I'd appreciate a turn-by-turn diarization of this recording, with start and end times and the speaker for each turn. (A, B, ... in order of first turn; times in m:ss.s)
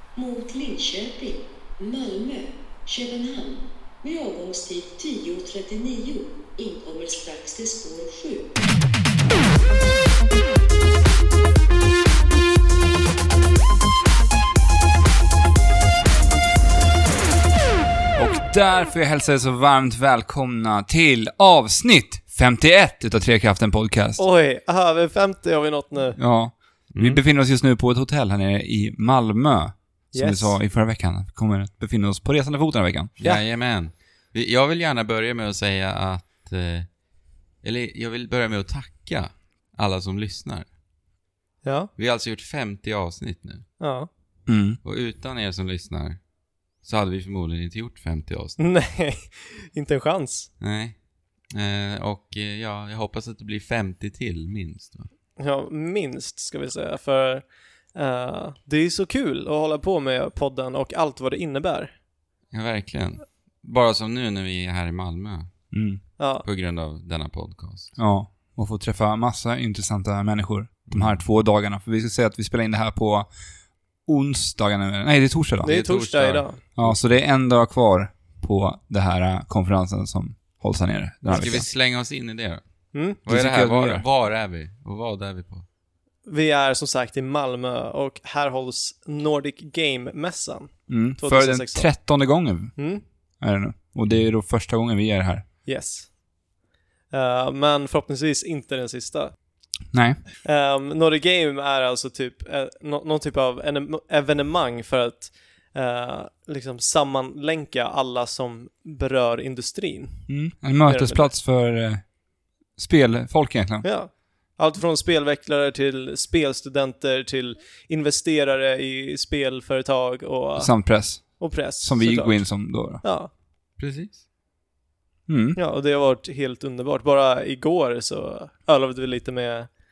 0:00.2-0:08.6 A
0:18.1-0:24.2 B
0:24.2-0:26.2 C
0:26.2-0:33.1 B
0:26.9-0:27.2 D
0:30.1-0:30.6 C
0:33.2-0:37.0 D
0:37.6-0:40.7 D
0:41.6-0:41.9 C
0:42.0-0:43.7 D
0:43.8-0:44.1 C
0:44.5-0:44.8 B
0:44.8-0:48.6 D
0:48.6-0:50.5 C
0:50.6-0:55.1 D
0:55.4-1:02.0 C
1:02.5-1:08.0 D
1:05.7-1:06.0 B
1:06.2-1:06.4 C
1:08.0-1:15.7 B
1:10.9-1:11.2 D
1:15.6-1:16.6 C
1:15.6-1:17.2 D
1:16.8-1:21.7 B
1:21.2-1:25.6 D
1:22.9-1:23.2 C
1:23.3-1:24.1 B
1:26.2-1:32.1 C
1:30.9-1:35.4 B
1:32.8-1:33.0 C
1:35.7-1:36.5 C
1:37.1-1:39.3 C
1:39.9-1:40.2 B
1:40.4-1:51.3 C
1:50.3-1:53.9 B
1:53.8-2:03.3 C
2:00.6-2:03.0 B
2:03.8-2:04.2 D
2:05.3-2:05.6 B
2:05.6-2:09.7 C